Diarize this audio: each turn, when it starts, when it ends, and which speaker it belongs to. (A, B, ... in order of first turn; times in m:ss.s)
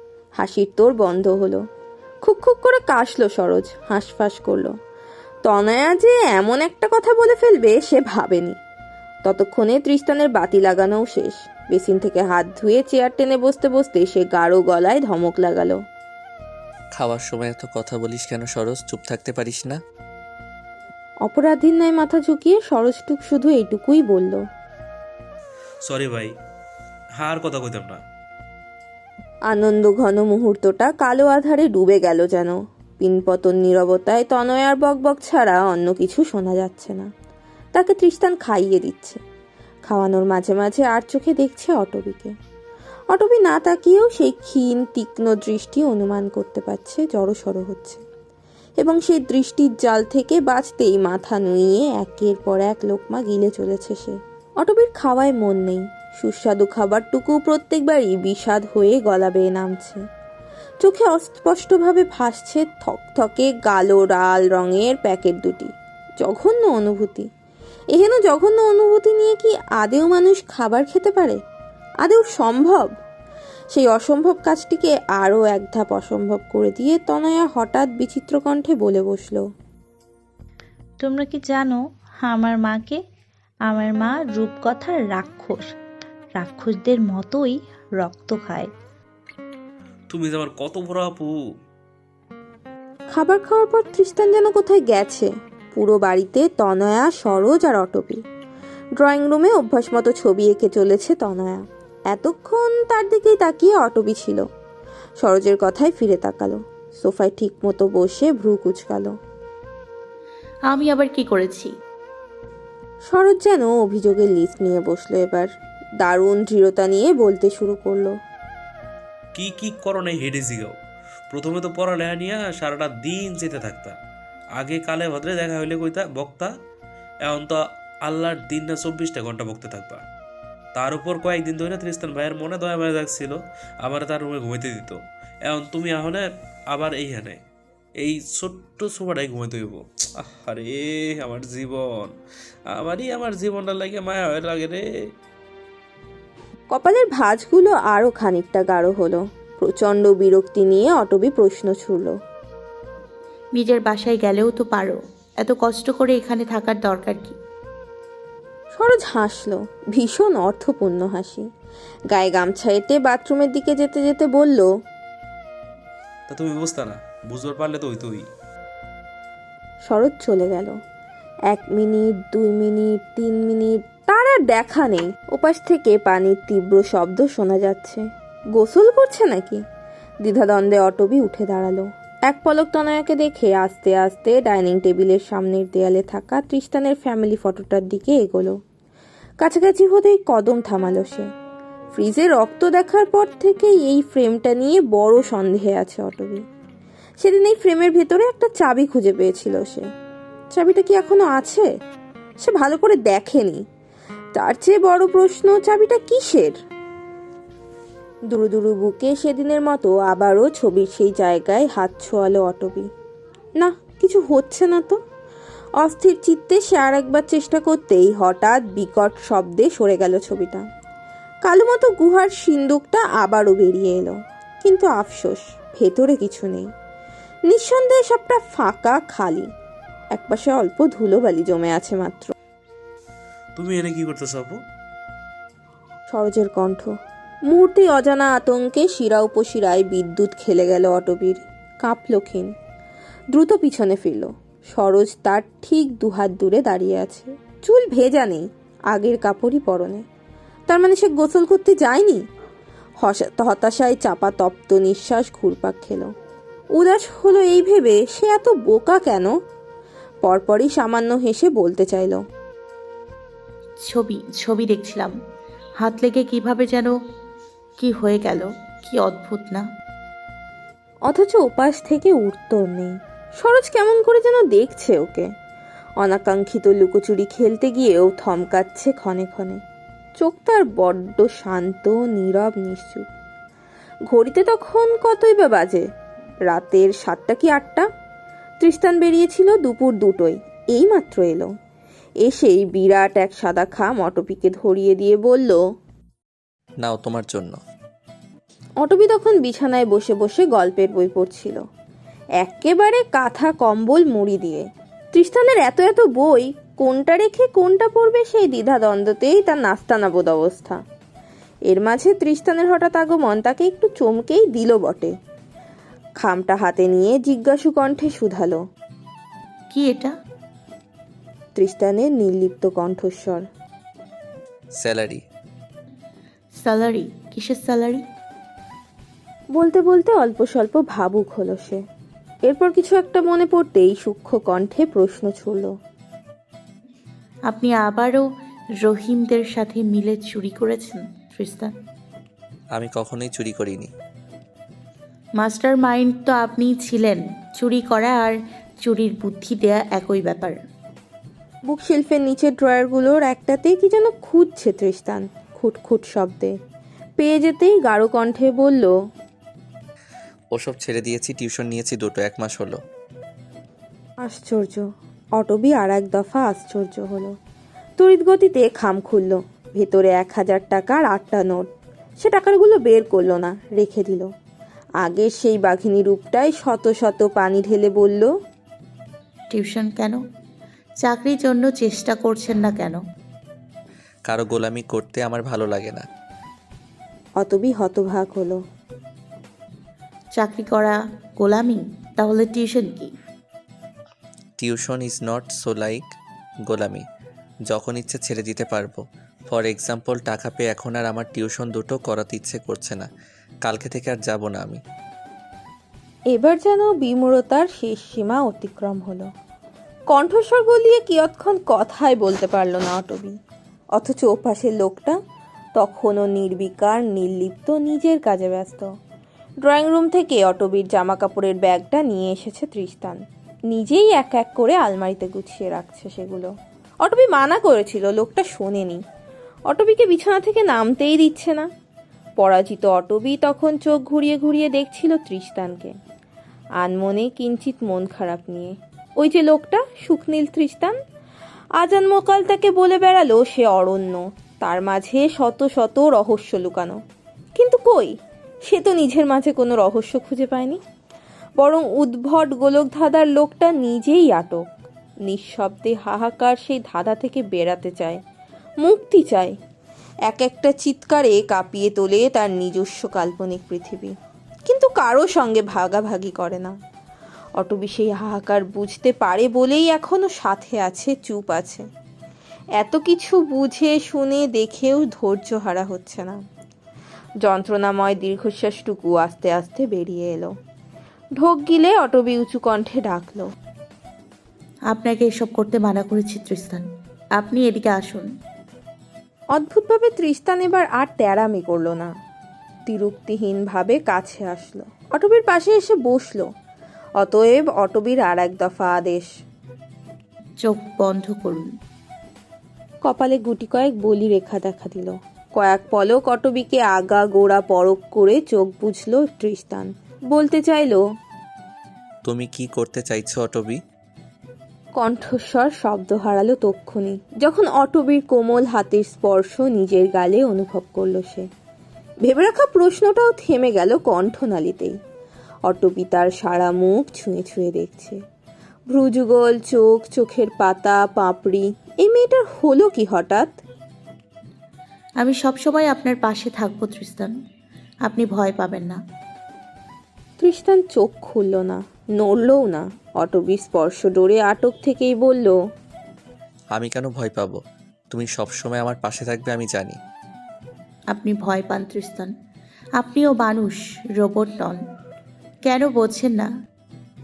0:00.4-0:01.6 A
0:02.2-0:04.7 A
0:05.4-0:08.6 A
0:09.2-0:15.8 A
0:16.9-0:19.8 B
0:21.2-0:24.4 A
0:25.9-0:26.3 C
0:27.2-0:28.0 C
0:29.5-0:37.1 A
0:37.7-0:39.2 A
0:39.9-0:42.3 A
0:43.1-0:48.0 A
0:48.8-1:00.0 A
1:00.8-1:07.3 A
1:07.9-1:11.4 A
1:12.0-1:12.9 A
1:13.7-1:19.4 A
1:21.0-1:23.0 D
1:23.7-1:25.7 D
1:26.4-1:28.7 D
1:30.1-1:31.3 C
1:33.1-1:38.2 A
1:39.0-1:44.4 A
1:45.2-1:49.1 A
1:50.7-1:51.7 E
1:53.1-1:55.5 A
1:56.0-1:58.1 A
1:59.4-2:00.7 C
2:01.3-2:04.0 C
2:04.6-2:06.5 C
2:07.2-2:10.0 C
2:10.7-2:17.4 C
2:18.0-2:22.1 C
2:22.7-2:24.8 C
2:26.7-2:32.1 A
2:33.5-2:37.4 E
2:38.8-2:41.4 A
2:42.1-2:44.7 A
2:46.3-2:48.2 C
2:49.9-2:50.7 A
2:51.5-2:58.0 A
2:58.6-2:59.6 A
3:00.2-3:08.5 A
3:09.4-3:11.3 A
3:11.9-3:16.4 A
3:17.2-3:19.8 A
3:20.5-3:21.7 A
3:22.4-3:23.6 A
3:24.3-3:26.5 A
3:28.3-3:32.9 A
3:33.6-3:35.0 A
3:35.8-3:40.6 A
3:41.4-3:46.7 A
3:47.5-3:49.5 A
3:50.1-3:52.3 A
3:53.6-3:54.5 C
3:56.1-3:56.9 A
3:57.5-4:02.5 A
4:03.3-4:10.0 A
4:10.7-4:12.2 A
4:13.0-4:16.1 A
4:16.8-4:19.3 A
4:20.2-4:22.2 A
4:23.9-4:25.1 E
4:25.8-4:26.9 E
4:27.8-4:29.6 E
4:31.1-4:35.3 A
4:36.0-4:39.6 A
4:40.2-4:43.0 A
4:44.1-4:45.8 A
4:46.5-4:47.8 A
4:48.6-4:51.5 A
4:52.2-4:55.6 A
4:56.8-4:57.6 B
4:58.8-5:01.6 A
5:02.4-5:10.8 A
5:11.7-5:15.1 A
5:16.2-5:18.6 A
5:19.7-5:20.1 E
5:21.6-5:23.4 A
5:24.8-5:25.2 B
5:26.6-5:28.0 E
5:29.6-5:31.8 A
5:32.5-5:35.7 A
5:37.5-5:38.2 E
5:38.8-5:41.7 E
5:42.7-5:43.9 B
5:45.4-5:50.6 E
5:51.7-5:56.5 A
5:57.2-5:58.9 A
6:00.5-6:02.8 B
6:04.2-6:04.8 A
6:05.4-6:07.3 A
6:08.0-6:11.7 A
6:12.2-6:14.3 A
6:15.0-6:18.3 A
6:19.5-6:20.2 E
6:21.0-6:23.0 E
6:24.3-6:26.0 B
6:27.4-6:28.6 A
6:30.4-6:33.1 E
6:34.6-6:36.0 B
6:36.6-6:37.0 B
6:37.7-6:43.1 B
6:43.6-6:44.8 B
6:46.3-6:49.3 A
6:50.1-6:53.4 A
6:54.0-6:55.2 A
6:55.8-6:58.9 A
6:59.6-7:03.2 A
7:03.7-7:06.5 A
7:07.0-7:09.0 A
7:09.7-7:11.7 A
7:12.4-7:15.9 A
7:16.8-7:20.9 A
7:21.8-7:27.0 A
7:27.6-7:28.1 A
7:28.7-7:30.8 A
7:31.6-7:34.6 A
7:35.3-7:38.2 A
7:38.8-7:39.5 A
7:40.3-7:44.1 A
7:44.7-7:46.7 A
7:47.6-7:51.8 A
7:52.8-7:56.4 A
7:57.4-8:00.5 A
8:01.4-8:03.4 A
8:04.9-8:06.8 E
8:07.4-8:08.2 E
8:09.5-8:12.1 A
8:12.9-8:16.4 A
8:17.2-8:19.3 A
8:20.6-8:21.7 E
8:23.1-8:31.0 A
8:32.2-8:33.8 B
8:35.0-8:41.4 A
8:42.2-8:44.9 A
8:45.7-8:48.2 A
8:48.9-8:53.5 A
8:55.2-8:57.3 E
8:58.0-8:59.0 E
9:00.4-9:05.5 A
9:06.7-9:07.6 B
9:08.1-9:10.0 B
9:11.1-9:12.3 E
9:13.0-9:14.8 E
9:15.6-9:16.5 E